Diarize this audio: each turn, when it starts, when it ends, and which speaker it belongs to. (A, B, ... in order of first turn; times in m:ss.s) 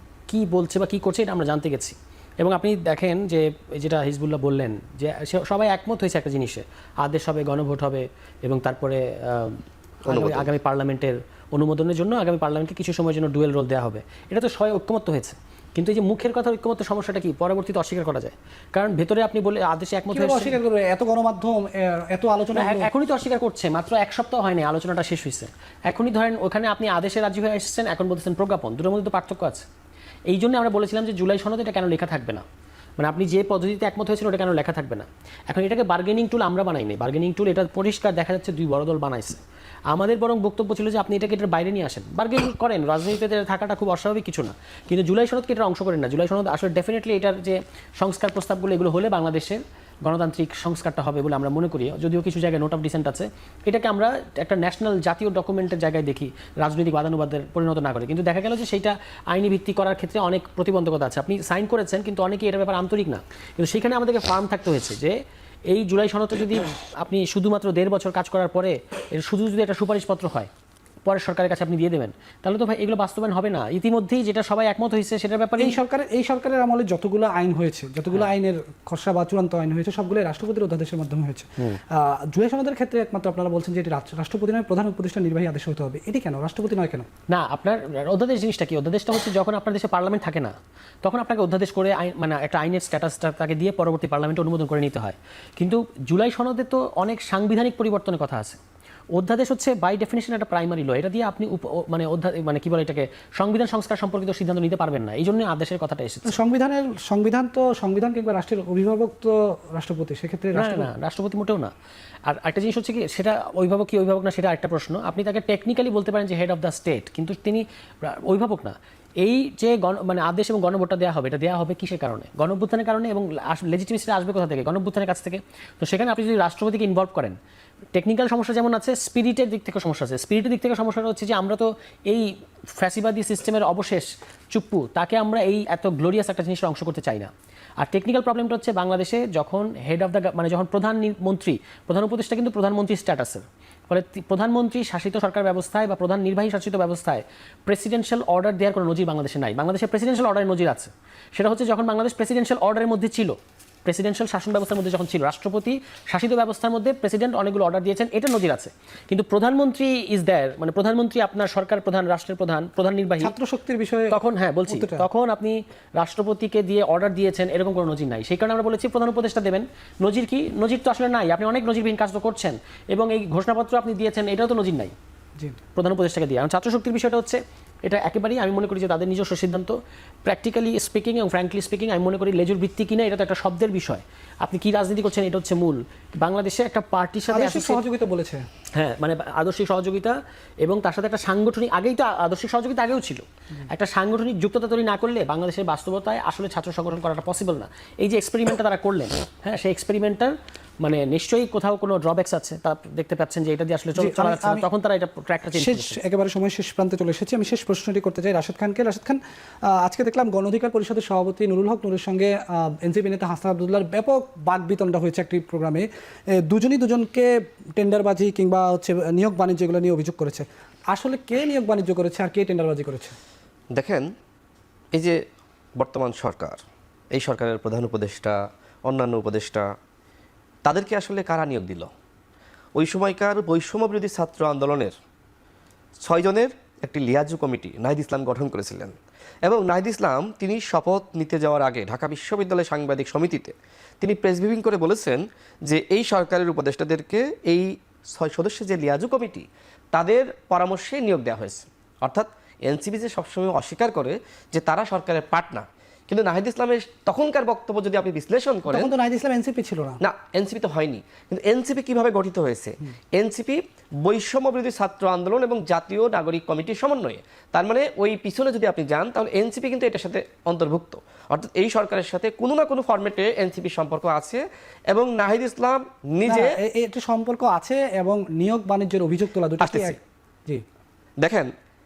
0:00.3-0:20.6 A
0:10.1-0:10.5 B
0:20.1-0:22.9 C
0:22.6-0:29.6 A
0:30.3-0:32.4 A
0:33.0-0:39.4 A
0:39.9-1:05.2 A
1:05.7-1:10.5 A
1:11.1-1:15.8 A
1:15.6-1:27.1 C
1:27.3-1:38.6 A
1:39.2-1:46.4 A
1:46.3-1:50.9 C
1:50.6-1:51.7 A
1:52.3-2:07.4 A
2:08.0-2:43.3 A
2:43.2-2:45.1 C
2:44.1-2:54.9 A
2:55.8-3:07.8 A
3:07.3-3:08.4 C
3:08.8-3:26.0 A
3:24.0-3:24.7 C
3:25.6-3:35.9 C
3:36.4-3:43.2 C
3:43.7-3:44.1 B
3:44.9-3:45.2 B
3:45.8-3:46.6 B
3:47.1-3:49.7 B
3:50.6-3:51.9 B
3:52.8-3:55.0 B
3:56.0-3:59.0 B
3:59.5-4:18.9 B
4:18.7-4:20.0 C
4:20.0-4:36.5 B
4:36.2-4:40.6 C
4:39.6-4:40.0 B
4:41.2-4:41.5 B